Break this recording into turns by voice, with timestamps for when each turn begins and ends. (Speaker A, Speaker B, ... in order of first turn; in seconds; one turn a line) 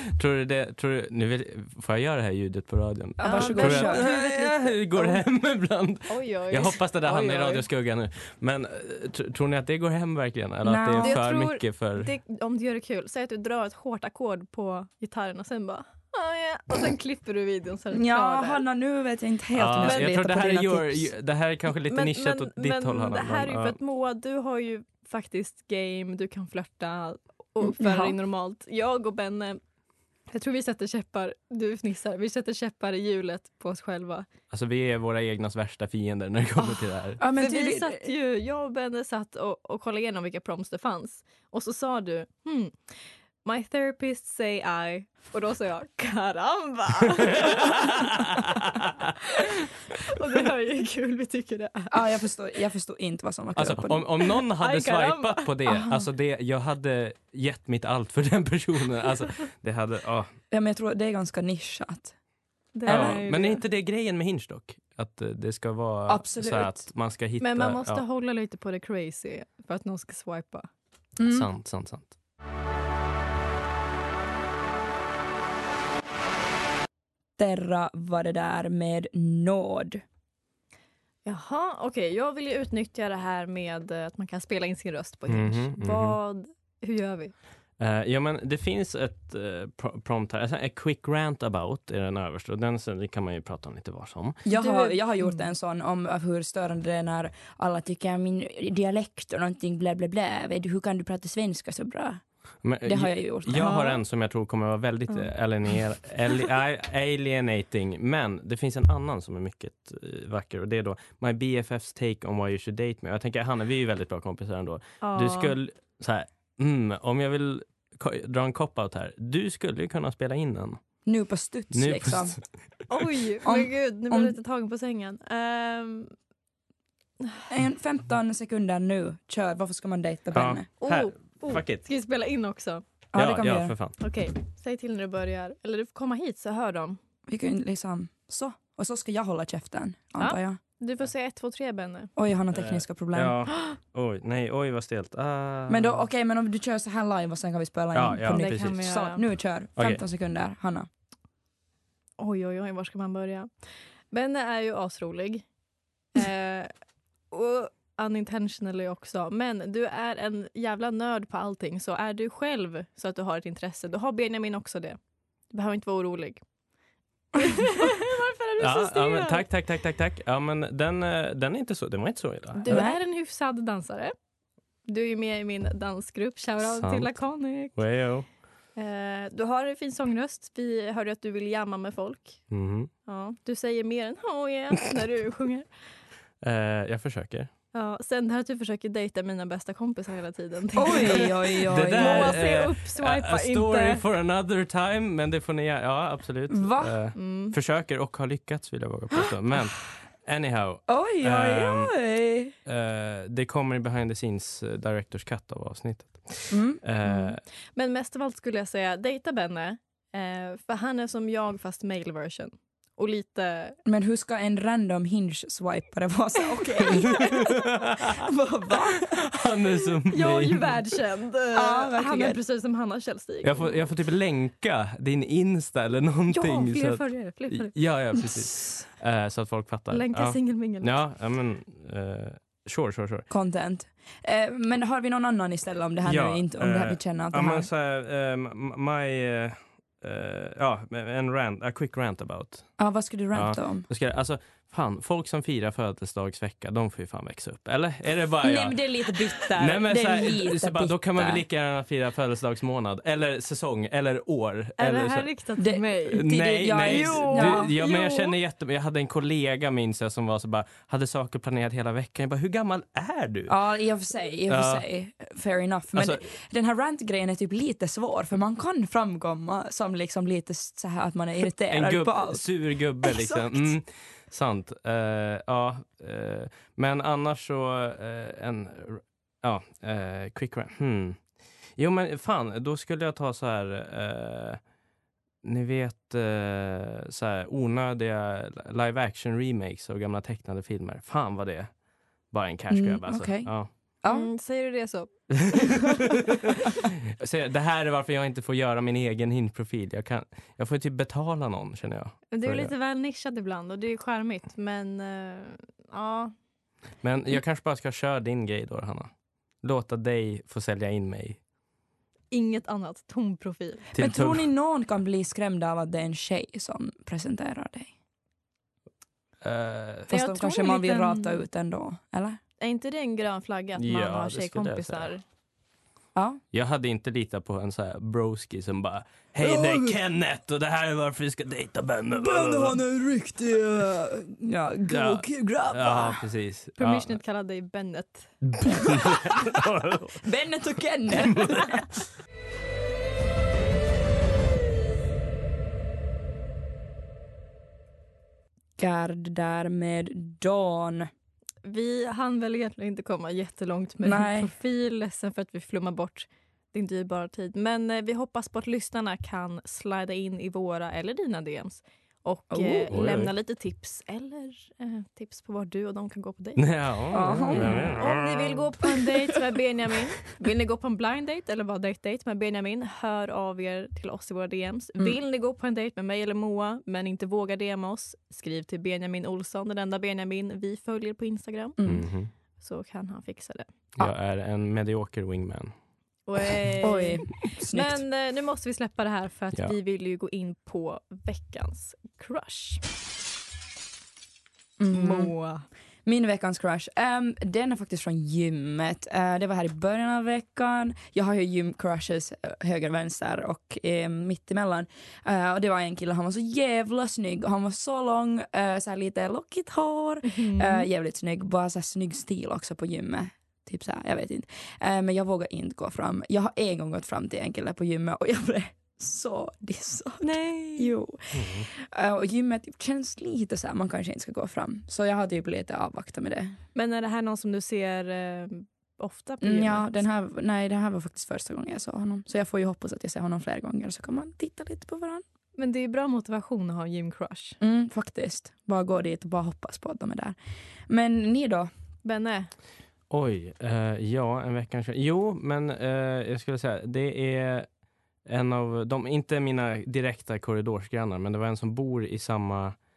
Speaker A: 0.1-12.1
Speaker B: 3.2-4.2
Speaker C: 3.2-5.2
Speaker C: 6.1-7.6
Speaker B: 10.6-11.2
Speaker C: 11.0-18.6
Speaker B: 17.9-21.1
Speaker A: 19.5-23.8
Speaker C: 21.9-29.6
Speaker B: 27.6-28.1
Speaker C: 30.3-34.3
Speaker A: 34.5-37.2
Speaker B: 36.6-38.1
Speaker C: 37.4-48.3
Speaker A: 47.4-49.1
Speaker C: 49.2-52.1
Speaker B: 51.9-54.1
Speaker A: 53.5-60.3
Speaker C: 54.5-55.5
Speaker B: 55.7-56.0
Speaker B: 60.5-62.1
Speaker C: 62.7-63.6
Speaker B: 62.9-63.2
Speaker A: 62.9-68.0
Speaker B: 66.1-66.8
Speaker C: 67.4-70.7
Speaker B: 71.2-71.5
Speaker A: 71.2-72.1
Speaker B: 77.4-80.0
Speaker C: 81.2-87.3
Speaker A: 85.3-86.2
Speaker A: 87.8-94.4
Speaker B: 94.4-102.2
Speaker C: 94.5-95.4
Speaker A: 102.6-120.8
Speaker B: 102.8-103.7
Speaker C: 103.6-104.0
Speaker C: 115.0-115.5
Speaker B: 121.0-122.4
Speaker A: 121.7-122.4
Speaker C: 122.9-126.1
Speaker B: 123.4-124.3
Speaker B: 127.5-130.7
Speaker A: 130.3-131.8
Speaker C: 130.8-132.8
Speaker B: 133.1-133.7
Speaker A: 133.1-134.0
Speaker C: 134.0-137.0
Speaker B: 137.3-140.6
Speaker C: 140.2-142.1
Speaker B: 142.2-143.4
Speaker A: 142.5-146.0
Speaker B: 145.7-150.9
Speaker A: 147.9-148.8
Speaker C: 148.3-149.2
Speaker A: 149.8-150.0
Speaker C: 152.2-153.5
Speaker C: 154.1-155.4
Speaker C: 156.1-156.7
Speaker C: 157.3-165.0
Speaker C: 165.5-166.4
Speaker C: 167.3-169.4
Speaker A: 168.6-172.9
Speaker C: 172.6-174.1
Speaker B: 172.7-173.0
Speaker C: 174.9-177.8
Speaker A: 176.6-177.2
Speaker A: 177.7-178.2
Speaker C: 178.8-182.4
Speaker A: 182.5-182.9
Speaker C: 183.1-185.7
Speaker A: 186.4-187.5
Speaker C: 187.7-194.0
Speaker B: 190.8-192.4
Speaker A: 191.7-201.9
Speaker B: 196.5-197.0
Speaker C: 197.2-197.6
Speaker B: 200.9-202.5
Speaker A: 202.6-207.4
Speaker B: 206.5-206.8
Speaker C: 207.0-213.8
Speaker B: 213.9-219.2
Speaker A: 216.8-218.2
Speaker A: 218.9-221.0
Speaker C: 220.1-223.9
Speaker B: 221.5-222.4
Speaker A: 223.4-233.3
Speaker C: 226.3-227.7
Speaker C: 229.9-230.9
Speaker B: 233.3-237.7
Speaker A: 236.0-242.7
Speaker B: 242.8-243.9
Speaker A: 243.3-248.9
Speaker B: 248.4-251.4
Speaker A: 249.4-255.3
Speaker C: 254.8-257.7
Speaker B: 255.6-258.3
Speaker A: 256.1-263.6
Speaker B: 263.5-272.4
Speaker A: 264.5-264.9
Speaker A: 265.9-266.2
Speaker A: 271.7-281.2
Speaker B: 273.0-273.7
Speaker A: 281.8-284.6
Speaker A: 285.4-291.7
Speaker A: 292.3-293.7
Speaker B: 292.7-294.3
Speaker C: 294.1-295.8
Speaker A: 295.3-302.7
Speaker C: 302.3-306.3
Speaker A: 307.0-309.1
Speaker A: 309.6-311.4
Speaker C: 312.3-313.9
Speaker A: 313.9-314.5
Speaker B: 314.0-317.9
Speaker A: 319.4-320.1
Speaker B: 320.1-322.4
Speaker C: 320.1-321.4
Speaker C: 322.6-325.2
Speaker A: 323.8-325.1
Speaker B: 326.1-326.4
Speaker A: 326.5-332.8
Speaker B: 329.4-329.9
Speaker B: 332.1-336.2
Speaker A: 334.9-337.2
Speaker C: 336.8-338.3
Speaker A: 338.4-340.1
Speaker B: 338.7-339.6
Speaker B: 340.1-341.8
Speaker A: 341.1-342.0
Speaker B: 348.8-351.1
Speaker C: 351.6-366.7
Speaker B: 354.0-354.5
Speaker B: 362.5-362.9
Speaker A: 362.9-363.3
Speaker A: 366.6-368.6
Speaker B: 367.1-368.1
Speaker C: 367.5-381.8
Speaker B: 381.8-382.1
Speaker A: 381.8-382.3
Speaker C: 382.6-383.7
Speaker A: 384.0-385.7
Speaker C: 386.3-392.8
Speaker B: 386.8-388.0
Speaker B: 394.8-395.4
Speaker C: 394.9-395.6
Speaker B: 396.1-426.6
Speaker C: 410.2-410.9
Speaker C: 420.2-420.9
Speaker A: 421.3-421.7
Speaker C: 426.7-430.0
Speaker B: 429.4-435.2
Speaker C: 435.6-437.6
Speaker B: 437.6-440.4
Speaker B: 440.9-441.7
Speaker C: 442.0-442.5
Speaker A: 443.1-447.7
Speaker A: 448.2-452.8